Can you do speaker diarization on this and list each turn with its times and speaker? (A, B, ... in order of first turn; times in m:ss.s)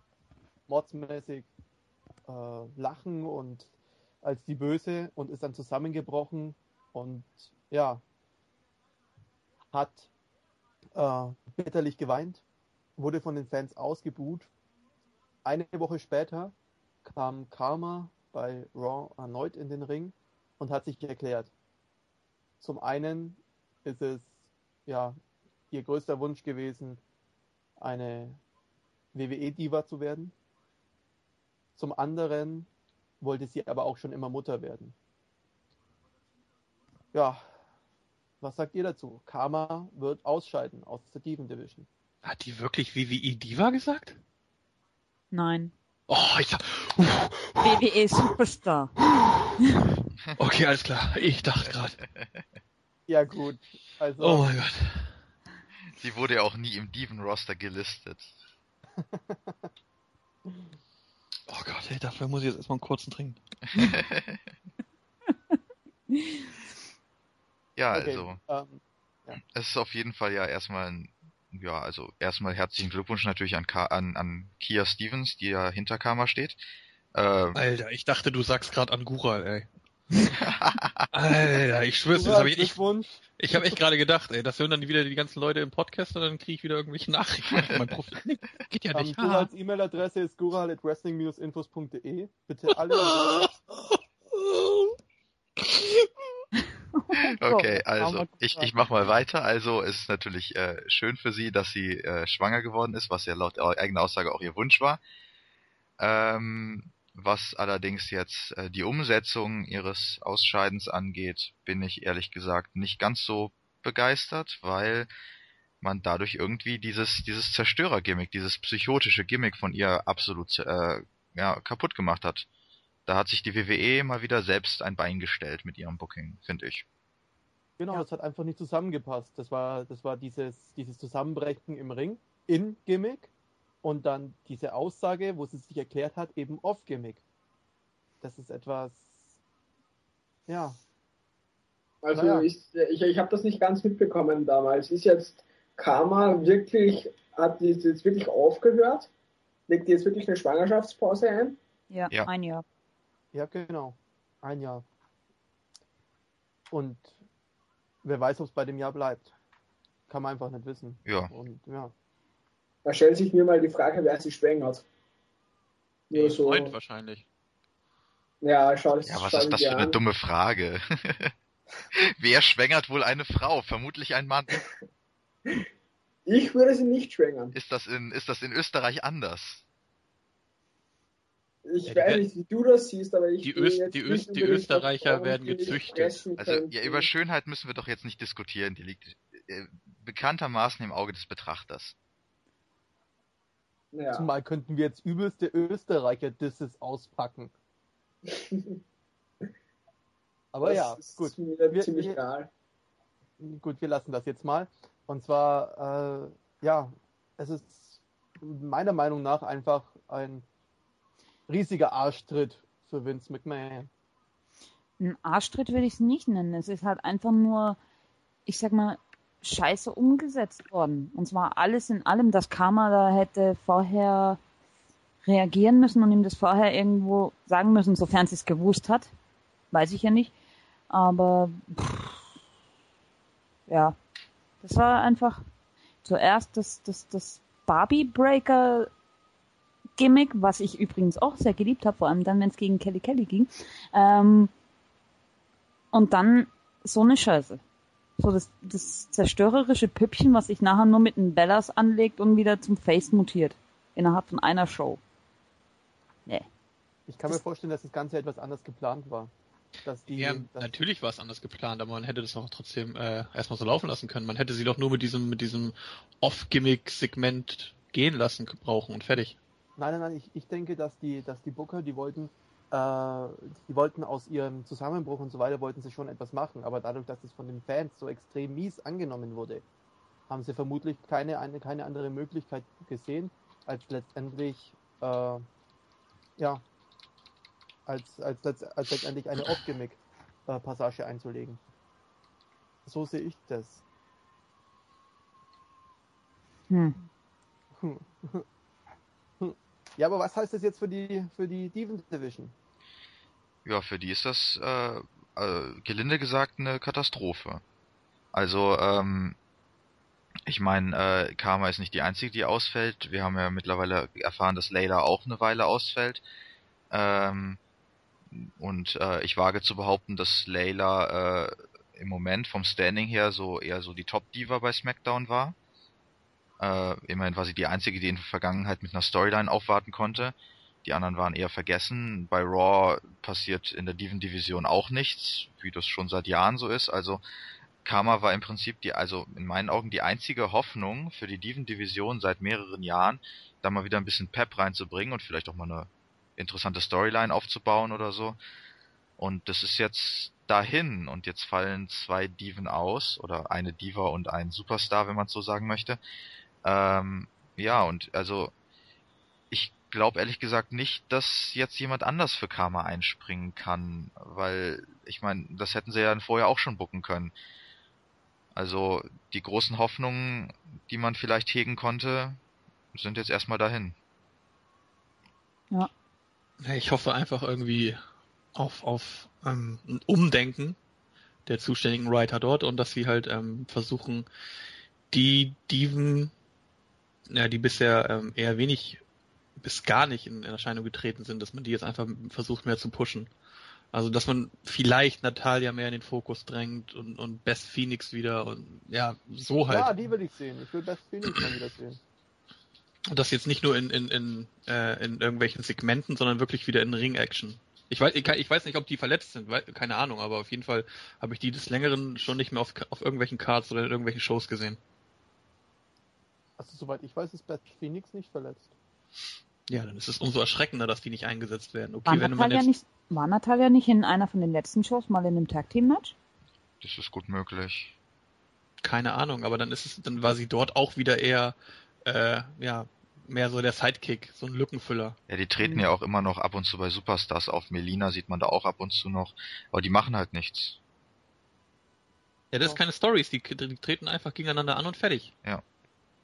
0:00.7-0:01.5 A
0:02.3-0:03.7 A
0:04.2-0:08.0 A
0:09.7-0:10.1 A
0:10.9-0:12.4 A
0:13.0-0:14.5 A
0:15.4-0:16.5 A
0:17.0-0:21.5 A
0:22.6-0:25.2 A
0:25.7-0:27.0 A
0:27.8-0:28.4 A
0:29.1-0:30.3 A
0:31.8-0:32.7 A
0:33.2-0:34.9 A
0:37.1-0:37.4 A
0:38.4-0:41.9 A
0:42.2-0:44.2 B
0:45.3-0:45.7 C
0:46.1-0:47.8 B
0:47.6-0:48.9 C
0:49.6-0:49.9 C
0:50.3-0:52.0 B
0:53.1-0:54.5 A
0:54.2-0:55.1 B
0:56.0-0:58.3 D
0:59.0-0:59.7 A
1:01.5-1:03.4 B
1:03.7-1:04.4 D
1:07.8-1:08.4 D
1:07.9-1:09.4 A
1:09.5-1:16.6 D
1:17.1-1:17.6 D
1:17.5-1:19.7 B
1:20.4-1:21.0 D
1:21.1-1:22.8 B
1:22.1-1:23.8 A
1:23.4-1:29.5 B
1:28.9-1:33.5 A
1:32.7-1:35.0 B
1:35.6-1:36.1 B
1:36.9-1:38.7 C
1:37.3-1:45.0 D
1:46.0-1:55.1 D
1:55.8-2:02.5 D
2:03.1-2:06.8 D
2:07.8-2:13.3 A
2:13.8-2:17.2 A
2:18.2-2:19.2 A
2:20.5-2:20.8 A
2:22.0-2:29.1 E
2:22.1-2:22.5 A
2:29.7-2:31.6 E
2:31.9-2:32.6 C
2:33.3-2:34.8 A
2:36.7-2:37.2 A
2:38.0-2:39.3 A
2:40.1-2:41.9 A
2:41.0-2:41.3 D
2:42.8-2:44.8 E
2:46.1-2:46.7 E
2:46.1-2:47.2 B
2:48.4-2:50.0 E
2:49.1-2:51.3 D
2:51.9-2:54.5 D
2:56.2-2:57.5 E
2:57.5-2:59.6 D
3:01.6-3:07.1 E
3:01.8-3:02.2 B
3:03.4-3:06.2 B
3:06.4-3:11.9 D
3:13.9-3:14.3 E
3:14.1-3:17.5 A
3:18.2-3:18.8 E
3:20.5-3:22.2 A
3:20.6-3:22.5 E
3:23.4-3:30.4 A
3:31.5-3:33.9 A
3:35.0-3:37.8 C
3:38.4-3:44.4 C
3:45.2-3:49.1 C
3:49.7-3:50.3 C
3:50.9-3:52.2 C
3:53.7-3:54.0 C
3:54.6-3:55.4 C
3:56.0-3:58.9 C
4:00.0-4:04.5 C
4:05.9-4:07.6 C
4:08.2-4:15.0 C
4:17.1-4:19.3 A
4:19.8-4:20.8 A
4:20.1-4:29.4 B
4:29.8-4:39.6 A
4:40.3-4:45.4 A
4:46.4-4:46.6 A
4:47.9-4:51.6 A
4:52.8-4:53.8 A
4:56.7-4:57.0 C
4:57.8-4:58.4 A
4:59.4-5:02.5 A
5:03.6-5:07.6 D
5:08.3-5:09.4 D
5:10.5-5:16.2 D
5:16.9-5:17.6 D
5:18.3-5:25.6 D
5:26.6-5:37.2 D
5:37.8-5:48.4 D
5:49.2-5:56.0 D
5:56.6-5:58.5 D
5:59.5-6:07.3 D
6:08.5-6:12.4 D
6:12.9-6:13.9 D
6:16.6-6:18.0 B
6:18.5-6:20.8 B
6:21.4-6:24.2 B
6:25.1-6:26.3 B
6:27.3-6:29.0 B
6:29.6-6:33.3 B
6:33.9-6:40.0 B
6:39.7-6:42.0 A
6:43.1-6:54.8 B
6:56.6-6:58.7 A
6:59.7-7:02.7 B
7:02.0-7:06.1 C
7:06.8-7:07.9 D
7:08.8-7:15.2 B
7:15.3-7:20.8 D
7:22.5-7:25.3 B